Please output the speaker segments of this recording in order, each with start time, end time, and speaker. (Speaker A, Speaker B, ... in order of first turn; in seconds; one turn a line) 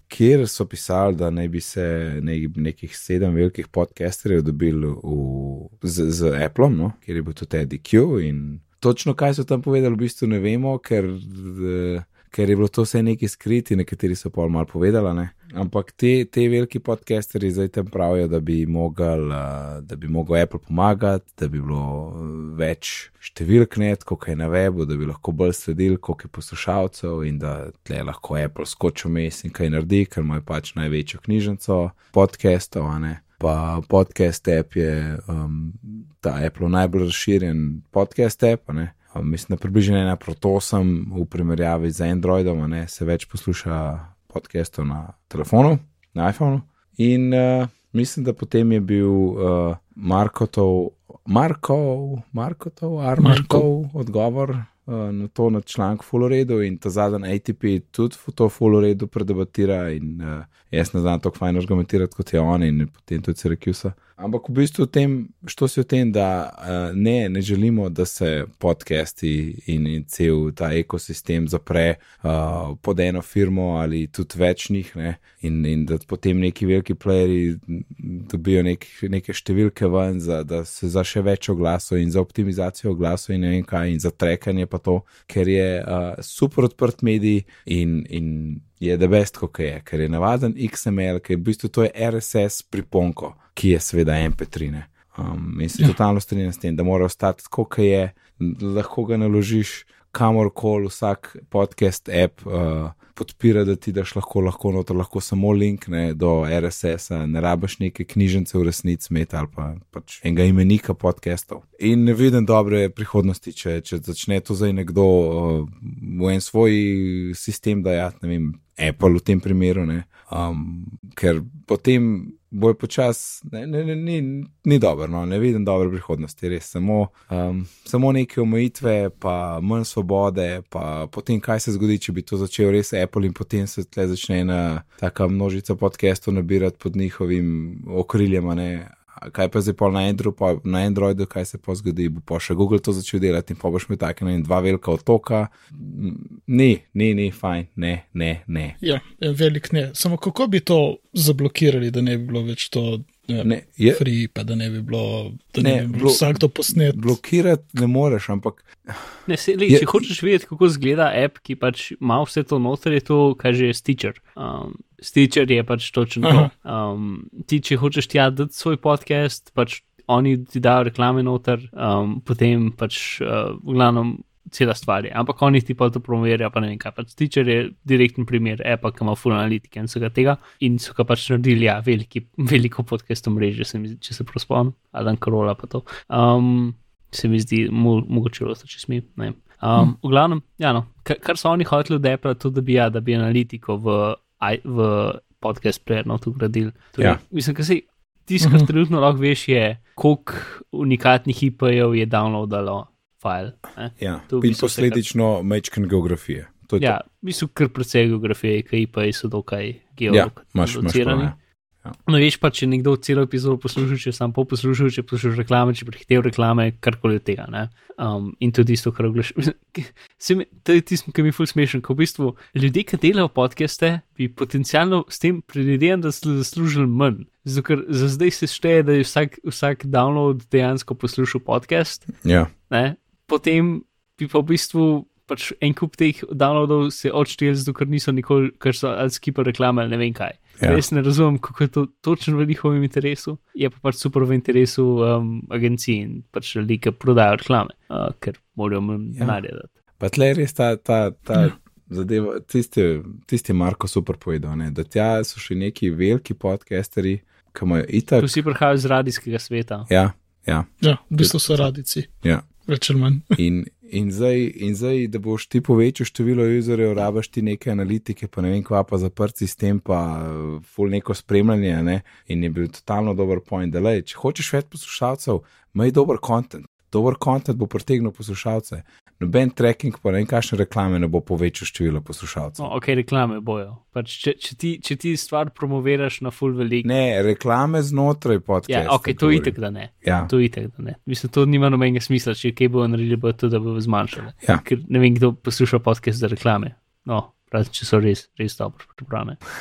Speaker A: 0.1-148.8
Speaker B: 53.2-53.6
Speaker B: 148.8-157.2
Speaker A: 153.4-154.0
Speaker A: 155.6-160.0
Speaker C: 159.3-205.0
Speaker B: 166.2-166.5
Speaker B: 198.4-198.7
Speaker A: 204.0-207.0
Speaker C: 206.8-211.3
Speaker A: 210.1-211.9
Speaker C: 212.1-232.1
Speaker A: 232.2-232.5
Speaker C: 232.7-249.7
Speaker A: 240.6-240.8
Speaker A: 250.0-258.4
Speaker C: 258.2-259.9
Speaker A: 259.9-261.7
Speaker B: 260.8-262.1
Speaker B: 262.6-263.4
Speaker A: 263.4-282.7
Speaker C: 282.6-286.9
Speaker A: 286.8-290.3
Speaker C: 288.7-299.4